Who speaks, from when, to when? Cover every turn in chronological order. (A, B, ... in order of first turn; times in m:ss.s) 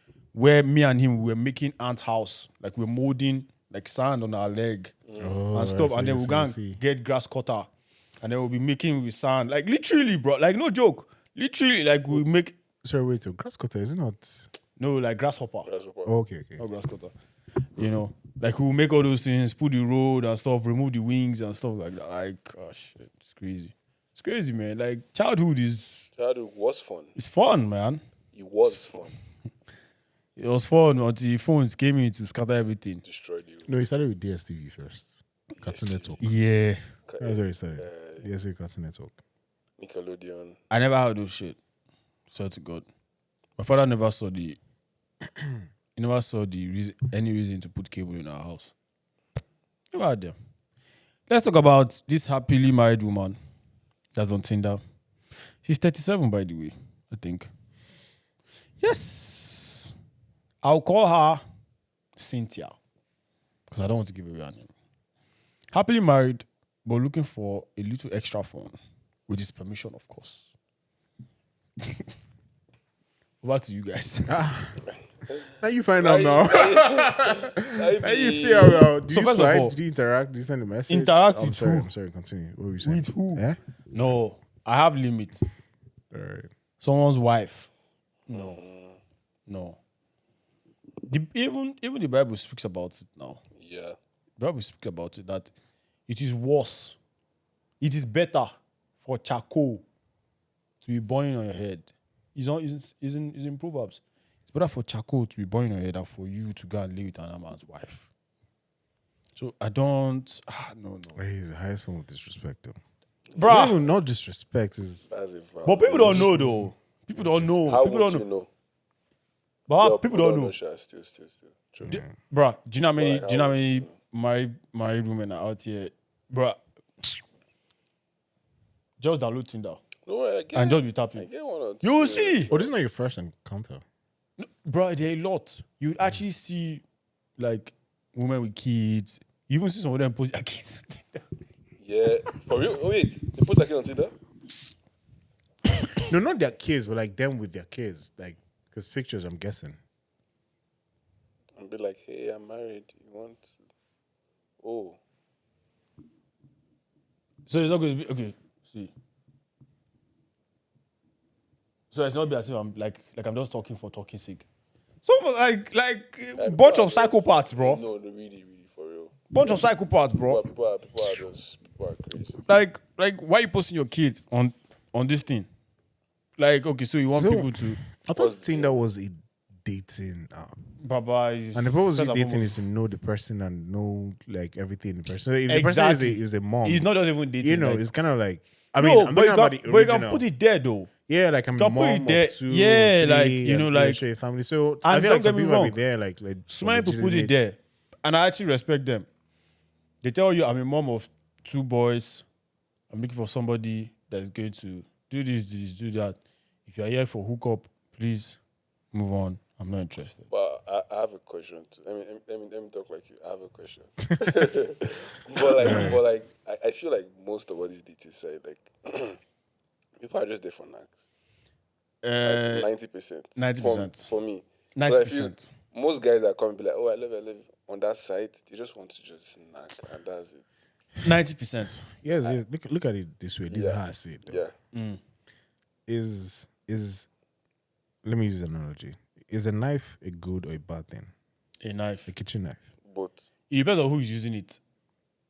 0:00.3-0:04.9 A
0:05.1-0:05.4 B
0:05.2-0:06.8 C
0:05.5-0:07.7 A
0:08.2-0:12.5 A
0:12.8-0:14.5 C
0:14.8-0:15.7 A
0:15.6-0:16.1 B
0:16.0-0:16.6 C
0:16.6-0:17.1 A
0:17.7-0:26.1 A
0:26.2-0:27.1 B
0:27.1-0:28.0 A
0:28.3-0:29.1 B
0:30.4-0:33.0 A
0:33.0-0:33.7 B
0:33.7-0:36.2 C
0:35.6-0:36.2 B
0:36.2-0:36.8 A
0:37.1-0:38.3 B
0:37.2-0:39.2 C
0:39.8-0:40.6 B
0:40.7-0:41.6 A
0:42.3-0:42.9 A
0:43.6-0:44.6 A
0:46.0-0:48.7 A
0:49.9-0:50.4 A
0:51.3-0:53.4 A
0:54.1-0:54.8 A
0:55.6-0:57.5 A
0:58.8-0:59.9 A
1:00.6-1:01.4 A
1:02.2-1:02.8 A
1:03.7-1:04.7 A
1:05.7-1:08.7 A
1:09.3-1:10.5 A
1:13.4-1:14.3 A
1:14.3-1:14.8 C
1:15.6-1:23.6 C
1:16.0-1:18.9 B
1:19.1-1:19.8 A
1:20.9-1:21.9 A
1:22.8-1:25.4 A
1:26.1-1:26.5 C
1:26.8-1:27.7 A
1:28.3-1:28.6 A
1:28.3-1:29.0 B
1:29.5-1:29.8 A
1:31.0-1:33.4 A
1:33.5-1:34.0 B
1:34.4-1:35.5 A
1:36.1-1:37.0 A
1:37.8-1:39.8 A
1:40.8-1:48.1 A
1:49.4-1:51.2 A
1:51.2-1:52.8 C
1:53.3-1:53.7 B
1:53.4-1:53.8 A
1:53.4-1:55.0 C
1:55.1-1:56.3 B
1:55.6-1:58.2 A
1:56.0-1:57.5 C
1:57.6-1:58.5 B
1:59.7-2:00.5 A
1:59.8-2:02.0 B
2:01.8-2:02.1 C
2:01.9-2:07.2 A
2:02.9-2:03.9 B
2:09.0-2:09.8 A
2:10.0-2:12.7 B
2:10.5-2:11.3 A
2:11.8-2:12.5 A
2:12.5-2:13.8 C
2:14.4-2:16.8 A
2:17.4-2:21.2 A
2:21.8-2:24.1 B
2:26.0-2:29.8 C
2:31.6-2:33.5 B
2:34.6-2:35.0 B
2:37.4-2:38.9 A
2:41.9-2:44.5 A
2:45.0-2:47.8 A
2:46.4-2:49.7 B
2:49.3-2:50.4 A
2:50.2-2:52.4 B
2:52.5-2:55.5 A
2:56.4-2:57.8 A
2:57.2-3:00.6 C
2:58.1-2:58.8 B
3:00.8-3:02.6 A
3:01.5-3:06.9 C
3:05.5-3:07.8 A
3:07.4-3:10.2 C
3:08.8-3:10.9 A
3:11.1-3:17.4 C
3:11.5-3:14.0 A
3:14.8-3:15.8 A
3:16.5-3:19.1 A
3:20.0-3:22.2 A
3:22.9-3:28.4 A
3:28.9-3:30.3 A
3:30.3-3:39.2 B
3:35.6-3:36.0 C
3:40.0-3:41.0 B
3:42.0-3:42.7 A
3:42.2-3:50.4 B
3:43.4-3:44.1 A
3:44.7-3:45.5 A
3:51.0-3:51.8 A
3:51.8-3:54.4 C
3:53.5-3:54.5 B
3:54.7-3:55.0 A
3:55.9-3:57.1 C
3:58.0-4:01.1 C
4:01.6-4:02.1 A
4:02.1-4:02.7 C
4:02.8-4:03.2 B
4:03.5-4:04.6 A